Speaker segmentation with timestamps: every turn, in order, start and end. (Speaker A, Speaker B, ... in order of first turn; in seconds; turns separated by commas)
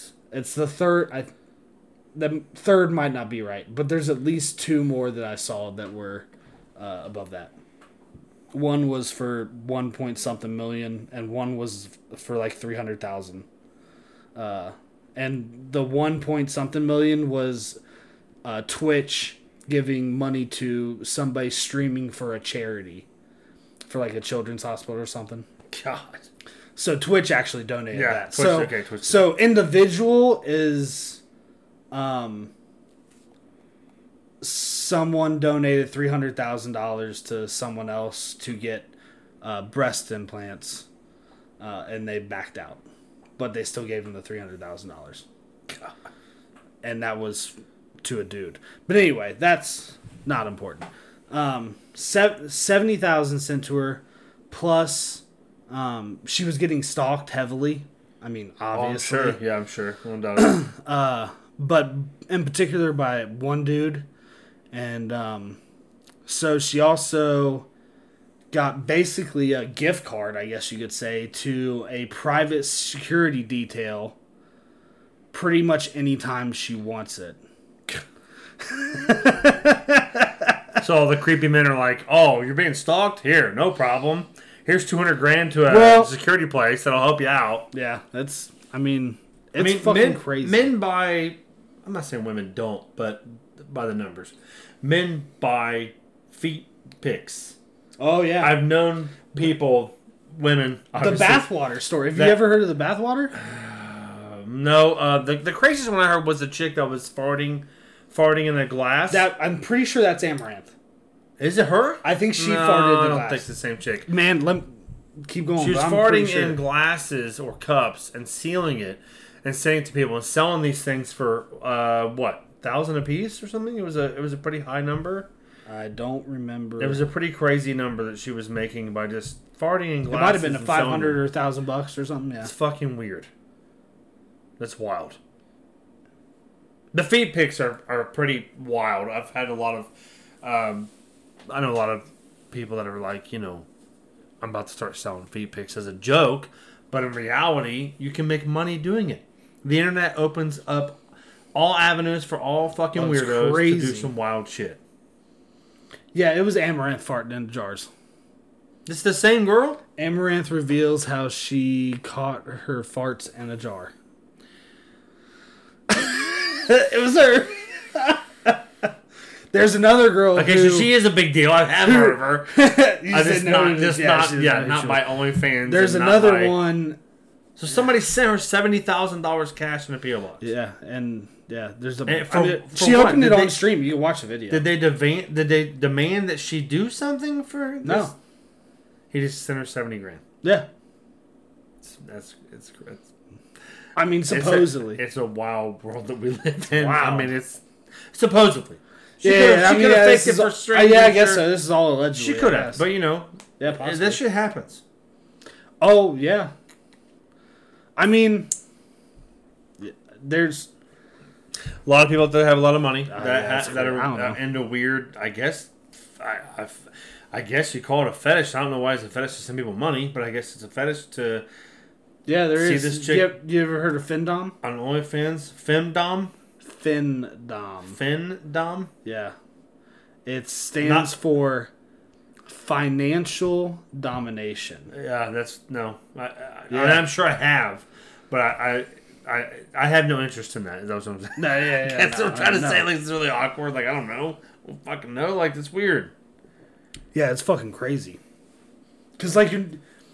Speaker A: 0.3-1.3, Speaker A: 2.1-7.5, Speaker A: 8.5-13.5, Speaker A: 14.3-17.8, Speaker A: 18.4-23.1, Speaker A: 23.9-25.5, Speaker B: 25.7-26.3, Speaker A: 26.8-31.2, Speaker B: 27.9-29.3, Speaker A: 31.9-32.5, Speaker A: 34.4-40.9, Speaker A: 41.6-42.8, Speaker A: 43.4-45.2, Speaker A: 46.8-59.4, Speaker B: 58.7-60.6, Speaker A: 60.4-64.1, Speaker A: 64.7-65.6, Speaker A: 66.3-67.7, Speaker A: 68.5-74.2, Speaker A: 75.3-78.0, Speaker A: 78.6-80.5, Speaker B: 80.8-87.7, Speaker A: 85.7-86.1, Speaker A: 87.7-90.7, Speaker B: 89.6-97.6, Speaker A: 98.0-98.6, Speaker B: 98.4-101.5, Speaker A: 101.0-103.3, Speaker B: 102.1-102.4, Speaker B: 103.3-109.3, Speaker A: 109.1-110.7, Speaker B: 111.4-114.1, Speaker A: 112.0-113.5, Speaker A: 114.1-116.6, Speaker B: 115.6-125.3, Speaker A: 125.7-127.0, Speaker B: 126.8-131.2, Speaker A: 130.1-132.5, Speaker B: 132.4-133.3, Speaker B: 134.6-135.2, Speaker B: 136.9-139.9, Speaker B: 140.4-140.9, Speaker B: 141.5-143.7, Speaker B: 144.4-151.0, Speaker B: 151.6-154.8, Speaker A: 152.9-154.1, Speaker A: 156.1-157.9, Speaker B: 158.9-159.8, Speaker A: 160.0-163.9, Speaker A: 165.9-168.9, Speaker A: 169.5-170.9, Speaker B: 170.4-172.6, Speaker A: 171.8-177.0, Speaker B: 173.1-176.6, Speaker B: 177.6-180.5, Speaker A: 180.4-184.7, Speaker B: 182.1-183.6, Speaker B: 184.5-188.1, Speaker A: 187.8-188.1, Speaker B: 189.1-190.2, Speaker A: 190.4-190.7, Speaker B: 191.8-193.1, Speaker A: 194.0-195.0, Speaker B: 194.3-201.5, Speaker A: 196.8-197.3, Speaker A: 199.2-202.9, Speaker B: 202.2-204.8, Speaker A: 203.6-204.2, Speaker A: 205.8-206.5, Speaker A: 208.0-208.5, Speaker A: 209.8-210.7, Speaker B: 211.9-221.4, Speaker A: 213.1-214.4, Speaker A: 222.3-224.6, Speaker B: 222.6-223.3, Speaker B: 224.6-226.3, Speaker A: 226.6-228.0, Speaker B: 227.9-228.9, Speaker A: 229.0-229.3, Speaker A: 230.3-231.7, Speaker B: 230.8-231.2, Speaker A: 232.5-234.9, Speaker B: 234.9-246.1, Speaker A: 236.7-237.1, Speaker A: 241.4-242.9, Speaker A: 247.1-248.2, Speaker A: 249.2-249.8